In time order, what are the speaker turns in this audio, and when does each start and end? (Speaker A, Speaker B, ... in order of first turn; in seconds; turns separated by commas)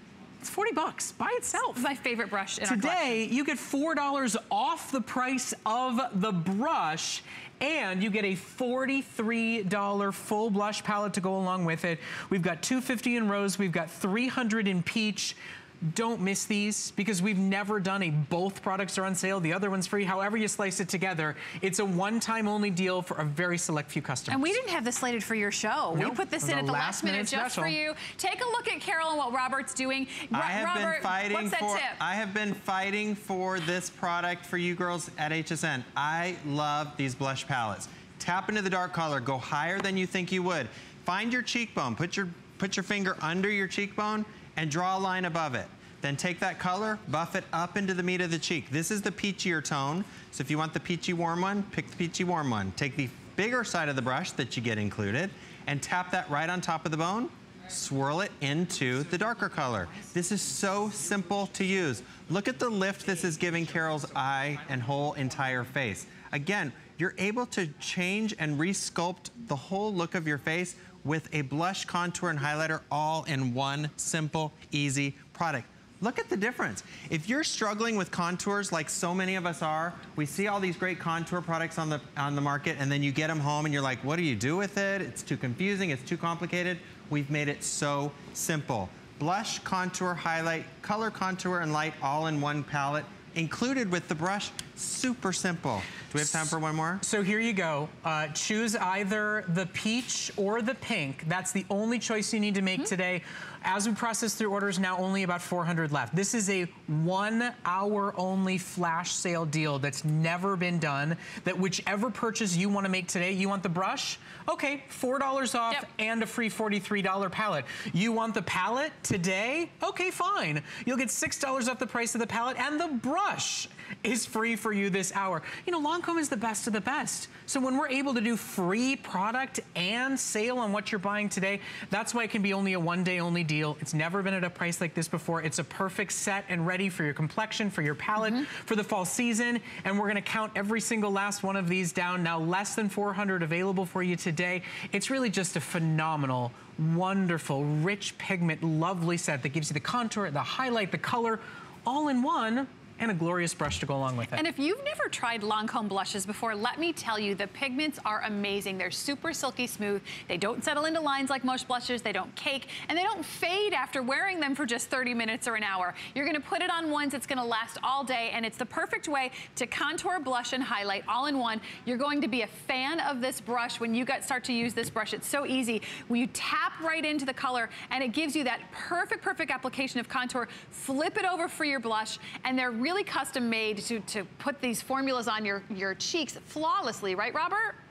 Speaker A: 0.4-1.9, Speaker B: 1.7-3.2, Speaker A: 2.7-24.5, Speaker B: 24.3-32.0, Speaker A: 25.9-27.8, Speaker C: 30.3-97.0, Speaker A: 97.0-154.4, Speaker B: 154.3-187.8